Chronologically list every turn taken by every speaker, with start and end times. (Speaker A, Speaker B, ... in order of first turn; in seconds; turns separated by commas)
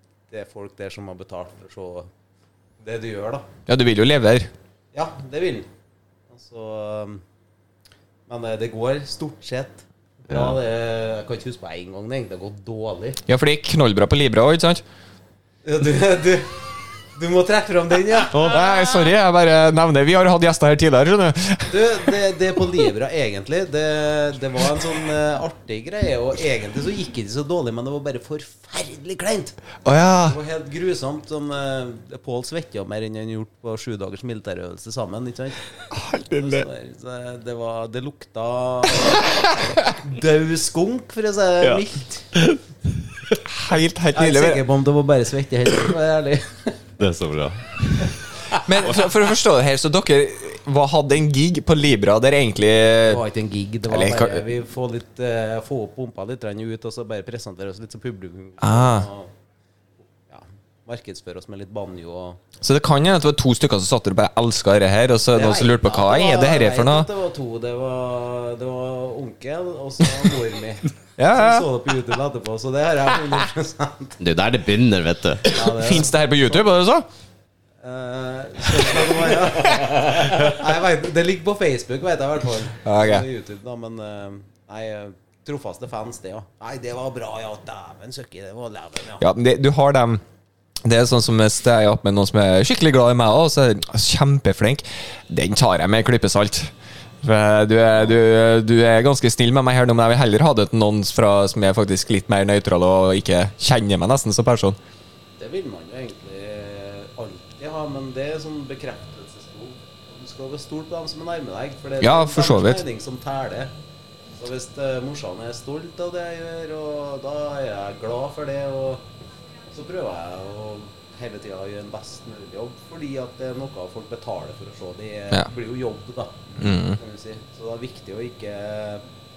Speaker A: 0.3-2.1, Speaker A: 2.8-3.5, Speaker B: 3.7-4.5, Speaker A: 4.9-5.7, Speaker A: 6.3-7.2, Speaker A: 8.3-13.2, Speaker C: 10.3-10.6, Speaker B: 13.3-14.8, Speaker A: 15.6-16.6, Speaker A: 17.1-18.6, Speaker C: 18.3-18.6, Speaker B: 18.5-21.8, Speaker A: 21.7-29.6, Speaker B: 29.8-30.4, Speaker A: 30.2-35.6, Speaker B: 35.9-36.6, Speaker A: 36.3-39.3, Speaker A: 40.0-42.2, Speaker B: 43.5-44.6, Speaker A: 44.1-46.8, Speaker C: 47.0-48.1, Speaker B: 48.6-53.2, Speaker A: 53.0-59.3, Speaker B: 53.9-54.4, Speaker B: 58.6-59.1, Speaker A: 60.3-62.4, Speaker B: 62.6-67.1, Speaker A: 65.3-74.2, Speaker B: 71.2-71.7, Speaker C: 74.2-75.5, Speaker A: 75.5-76.6, Speaker B: 75.5-77.0, Speaker A: 77.8-89.2, Speaker B: 82.8-83.2, Speaker B: 89.2-90.2, Speaker B: 90.8-96.7, Speaker B: 97.2-104.8, Speaker A: 105.4-113.7, Speaker B: 112.0-112.8, Speaker A: 114.4-119.0, Speaker A: 119.7-129.0, Speaker B: 126.6-127.0